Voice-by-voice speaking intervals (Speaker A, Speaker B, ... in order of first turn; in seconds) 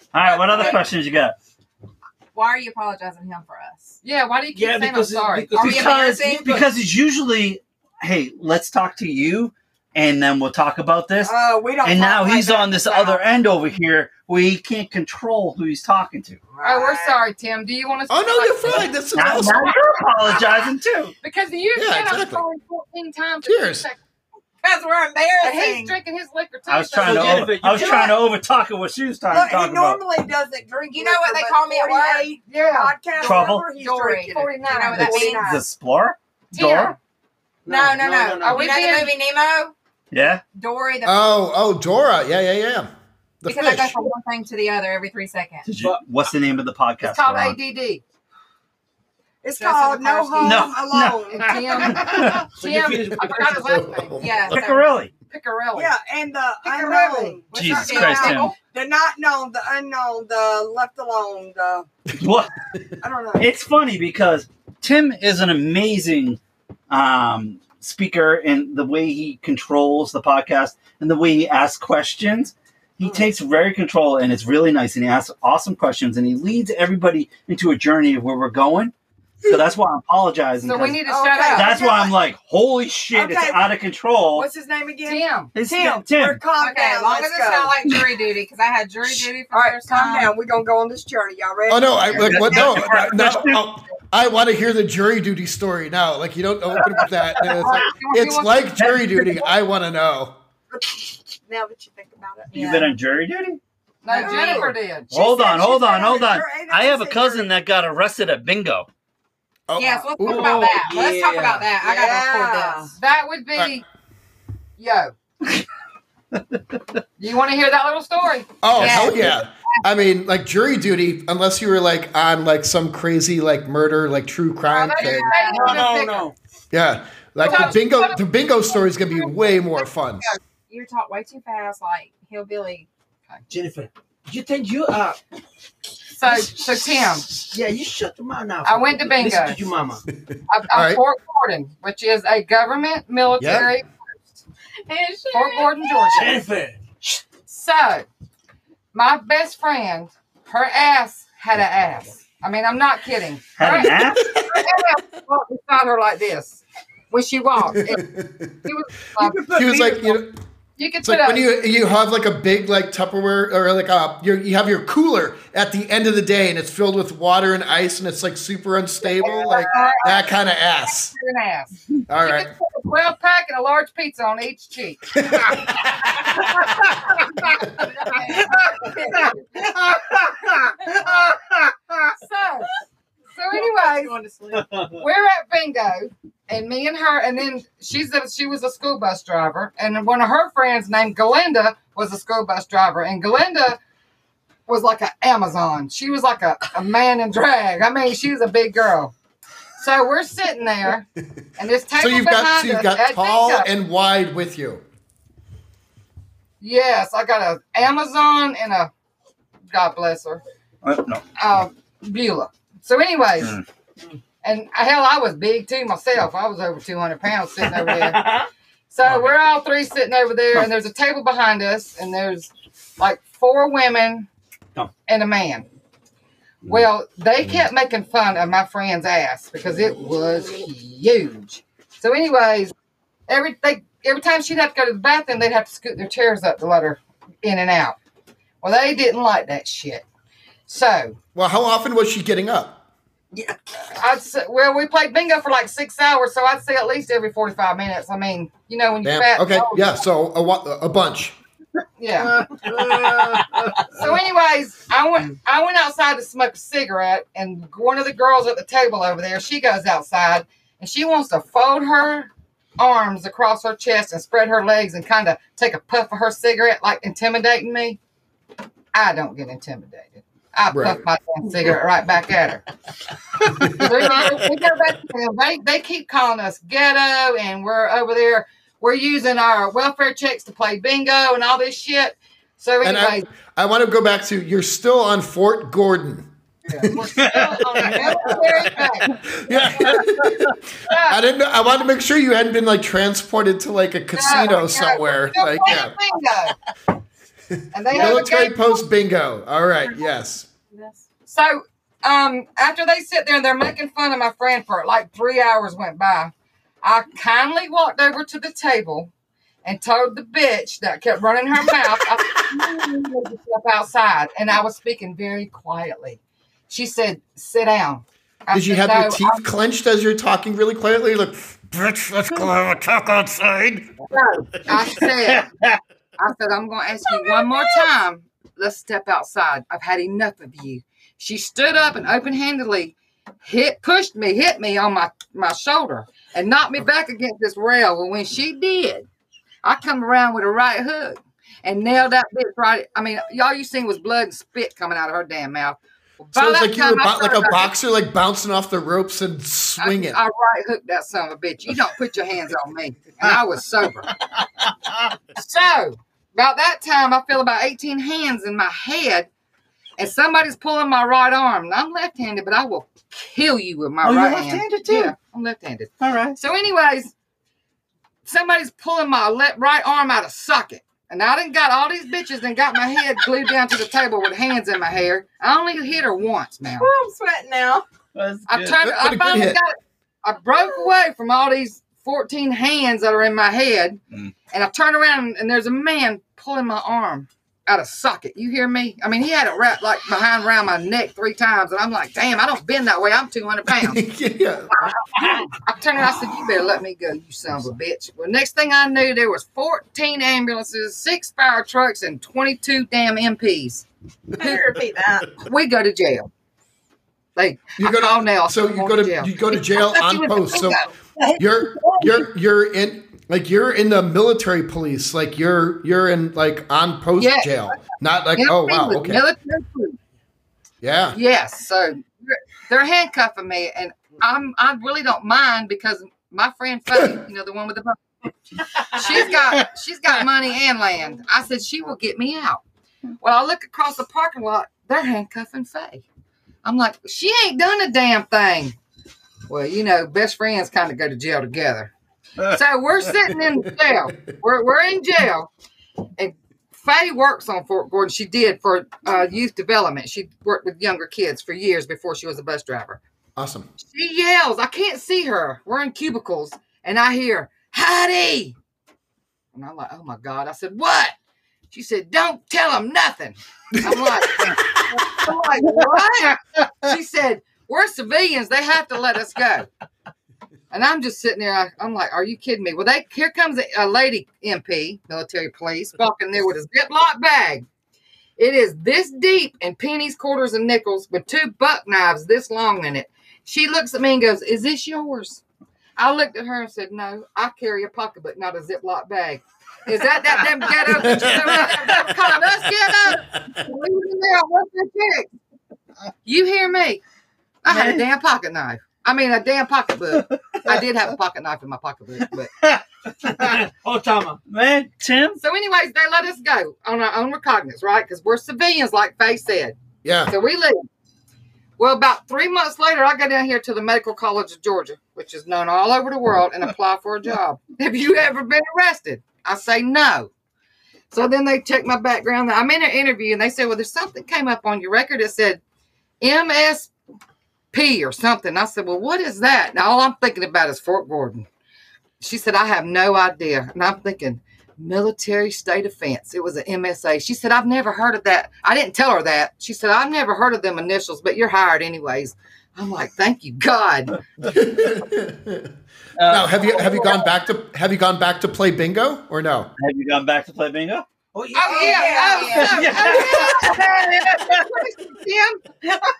Speaker A: 0.1-1.3, 5.6-16.4, 19.1-21.1, 26.7-30.0, 33.2-33.6, 35.2-37.0, 40.1-40.4, 45.6-47.6, 50.4-52.4, 54.5-55.1, 57.5-58.5, 62.2-62.5, 63.4-84.5, 85.5-86.4, 92.1-93.6, 98.8-99.4, 102.5-103.6, 105.1-108.9, 116.3-116.8, 153.6-154.2, 179.9-180.6, 210.8-211.2, 219.0-219.3, 287.1-288.1, 325.2-325.8, 364.0-365.1, 366.0-366.4, 378.1-378.8, 497.7-498.0, 500.2-500.8, 502.6-503.6, 504.5-505.4, 546.2-546.7, 549.8-551.0, 552.5-553.8
Speaker B: 0.3-0.8, 2.3-4.0, 5.5-6.6, 24.6-25.9, 30.9-32.3, 33.8-35.5, 37.7-39.7, 40.5-41.4, 43.5-45.6, 49.6-50.7, 54.2-54.7, 57.6-58.6, 86.6-90.3, 102.5-102.9, 104.1-104.7, 109.8-112.9, 118.8-119.4, 125.3-125.8, 130.7-132.9, 144.9-146.2, 177.8-179.3, 183.5-184.7, 300.7-301.0, 376.8-377.8, 404.4-405.3, 551.7-553.6
Speaker C: 0.5-0.8, 11.2-13.2, 16.5-17.2, 29.3-35.6, 49.4-51.8, 55.7-61.9, 63.0-63.5, 73.0-73.3, 81.0-82.1, 83.1-83.7, 84.3-87.8, 89.5-92.8, 100.7-102.7, 104.1-107.5, 111.8-112.9, 169.2-170.2, 551.7-552.8
Speaker D: 4.0-5.6, 16.6-18.9, 21.2-24.0, 25.4-27.8, 32.5-33.5, 34.2-35.4, 36.5-37.0, 38.4-39.1, 47.0-48.0, 51.5-55.9, 56.6-57.4, 80.6-82.1, 85.0-85.5, 97.6-98.8, 104.0-105.1, 113.0-113.8, 114.8-115.1, 117.2-118.5, 124.7-126.3, 127.4-128.2, 129.1-129.6, 136.1-137.4, 138.6-139.6, 140.5-143.8, 145.3-146.4, 147.4-148.1, 148.9-158.0, 158.6-159.8, 160.8-161.4, 169.1-170.3, 171.0-175.2, 177.3-177.6, 178.2-179.4, 182.2-182.7, 183.3-184.1, 185.0-193.8, 194.7-199.1, 199.8-201.1, 201.6-203.7, 206.6-208.9, 209.7-210.4, 211.4-213.6, 214.4-218.3, 218.9-224.3, 225.1-225.7, 226.6-232.7, 233.3-237.9, 238.6-240.0, 240.7-241.2, 243.9-249.9, 252.0-252.3, 253.9-268.0, 268.9-272.6, 273.6-283.2, 286.7-290.0, 290.9-291.2, 294.1-296.5, 297.7-298.7, 301.3-309.1, 309.6-319.4, 324.1-325.5, 326.2-339.1, 339.6-347.7, 349.8-354.1, 355.4-359.3, 360.0-367.1, 368.2-376.9, 378.5-394.0, 395.2-403.9, 404.4-404.7, 405.4-406.3, 407.4-410.8, 417.2-417.7, 418.4-420.0, 421.1-428.0, 428.8-432.6, 433.2-436.0, 436.6-438.8, 439.5-445.5, 446.2-453.0, 453.8-458.5, 459.5-461.1, 461.7-469.7, 470.7-477.6, 478.4-485.4, 486.0-495.3, 496.2-497.0, 497.6-502.5, 505.4-509.8, 510.3-510.9, 511.8-520.3, 521.1-525.6, 526.2-526.9, 527.7-531.5, 532.2-544.2, 546.6-547.2, 551.5-555.8
Speaker E: 4.5-6.7, 26.9-28.2, 37.6-38.9, 52.5-53.6, 110.2-111.7, 125.1-126.3, 127.4-127.8, 133.5-135.2, 136.3-136.8, 137.3-140.0, 146.1-146.8, 159.2-160.1, 184.5-185.0, 217.6-218.5, 252.2-254.0, 503.2-504.4, 551.3-553.1
Speaker F: 18.1-19.9, 21.7-22.4, 23.4-23.9, 41.0-42.9, 43.4-44.0, 53.5-54.5, 91.7-100.4, 109.7-110.7, 118.6-125.3, 126.7-130.3, 140.3-141.0, 143.4-143.7, 157.6-158.5, 159.5-160.4, 161.0-171.1, 172.1-172.5, 175.2-176.0, 201.9-204.8, 241.3-242.8, 249.0-251.3, 270.7-271.0, 273.6-274.3, 282.8-286.3, 287.8-295.9, 297.6-300.5, 318.5-323.9, 346.3-350.2, 378.8-379.6, 393.7-395.0, 407.8-410.8, 411.4-419.2, 420.8-421.2, 453.4-453.7, 490.9-492.0, 510.0-510.3, 544.5-545.7, 546.3-549.7